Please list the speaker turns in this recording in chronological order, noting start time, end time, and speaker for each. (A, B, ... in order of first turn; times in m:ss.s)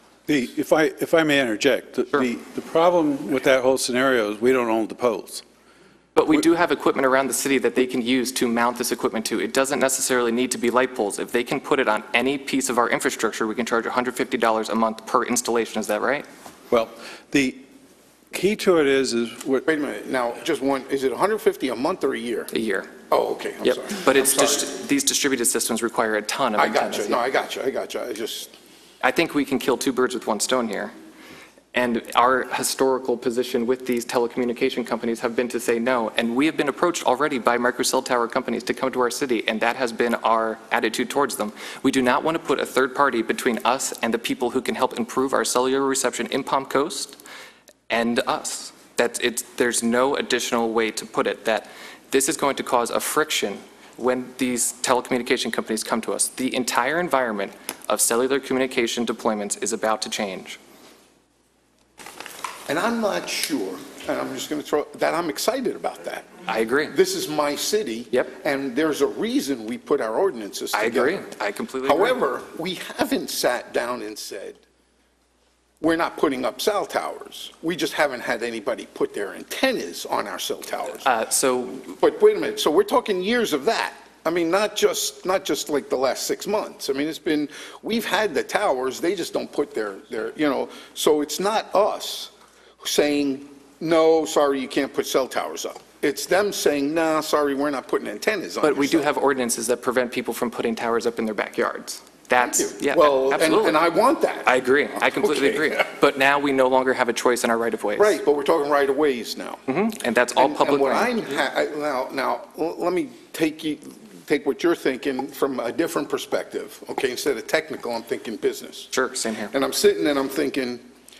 0:00.3-0:05.4 A
0:06.1-0:16.2 B
0:16.7-0:17.6 A
0:18.3-0:19.6 A
0:19.6-0:22.5 C
0:22.5-0:22.9 B
0:23.1-0:24.7 C
0:23.6-0:27.2 B
0:26.6-0:28.5 C
0:29.0-0:30.9 B
0:31.7-0:47.2 B
0:47.9-1:00.6 B
1:02.7-1:06.3 C
1:06.4-1:06.9 B
1:06.9-1:11.2 C
1:10.7-1:12.2 B
1:11.8-1:14.6 C
1:15.8-1:21.1 C
1:21.0-1:21.9 B
1:22.0-1:39.1 C
1:38.6-1:43.8 B
1:42.4-1:44.5 C
1:44.4-1:48.2 B
1:45.1-1:45.9 C
1:48.0-1:49.6 C
1:49.7-1:51.2 B
1:50.4-1:58.9 C
1:58.9-1:59.5 B
1:59.5-2:00.8 C